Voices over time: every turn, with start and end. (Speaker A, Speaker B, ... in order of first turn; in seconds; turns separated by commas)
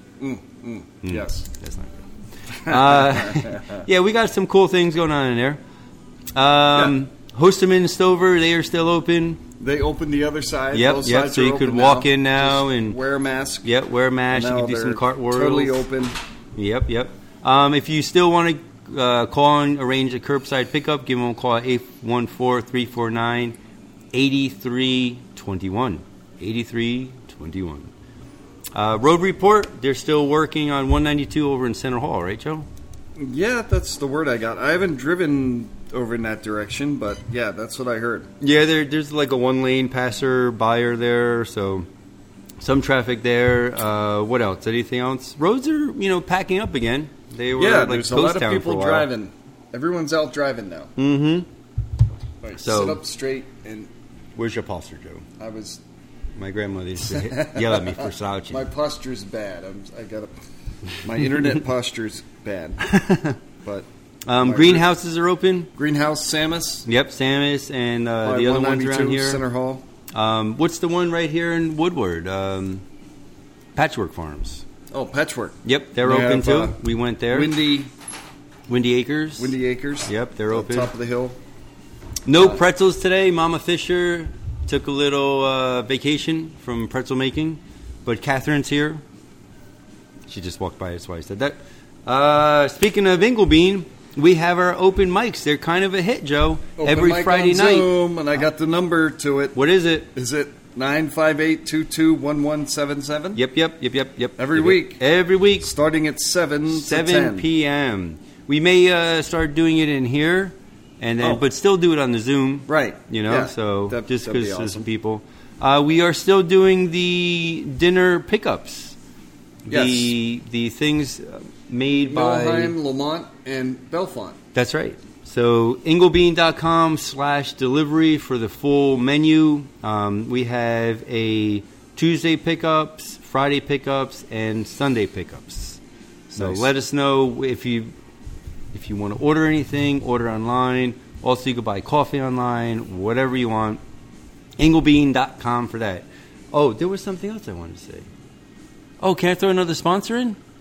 Speaker A: 0.2-1.5, Speaker B: 1.0-2.0, Speaker B: 2.6-5.6, Speaker A: 2.6-3.8, Speaker B: 6.3-9.4, Speaker A: 9.6-13.7, Speaker B: 10.7-13.0, Speaker B: 13.6-15.8, Speaker A: 14.3-16.1, Speaker B: 16.5-23.6, Speaker B: 24.1-27.9, Speaker B: 28.7-32.7, Speaker A: 33.1-38.3, Speaker B: 38.4-41.9, Speaker B: 42.6-49.1, Speaker A: 47.5-50.9, Speaker B: 51.0-51.5, Speaker A: 52.4-53.9, Speaker B: 52.6-53.0, Speaker B: 54.4-55.2, Speaker A: 55.4-55.8, Speaker B: 56.4-58.7, Speaker A: 57.0-60.3, Speaker A: 61.0-62.9, Speaker B: 62.8-63.4, Speaker B: 64.2-65.7, Speaker A: 64.4-64.8, Speaker A: 65.7-66.9, Speaker B: 66.8-69.4, Speaker A: 68.2-69.8, Speaker B: 70.1-72.8, Speaker B: 73.7-74.6, Speaker A: 74.9-76.8, Speaker B: 75.6-77.5, Speaker A: 77.3-77.9, Speaker B: 78.7-80.9, Speaker A: 79.4-81.4, Speaker B: 82.2-89.0, Speaker A: 82.3-82.6, Speaker B: 90.3-98.0, Speaker A: 96.8-99.6, Speaker B: 99.5-100.1, Speaker A: 100.1-103.4, Speaker B: 103.3-105.7, Speaker A: 104.4-105.0, Speaker A: 105.6-107.5, Speaker B: 106.7-119.0, Speaker A: 112.7-114.8, Speaker B: 119.7-122.8, Speaker A: 119.7-120.1, Speaker A: 122.1-124.4, Speaker B: 124.5-137.9, Speaker A: 136.3-136.7, Speaker B: 138.7-143.8, Speaker B: 144.6-148.1, Speaker B: 149.0-150.4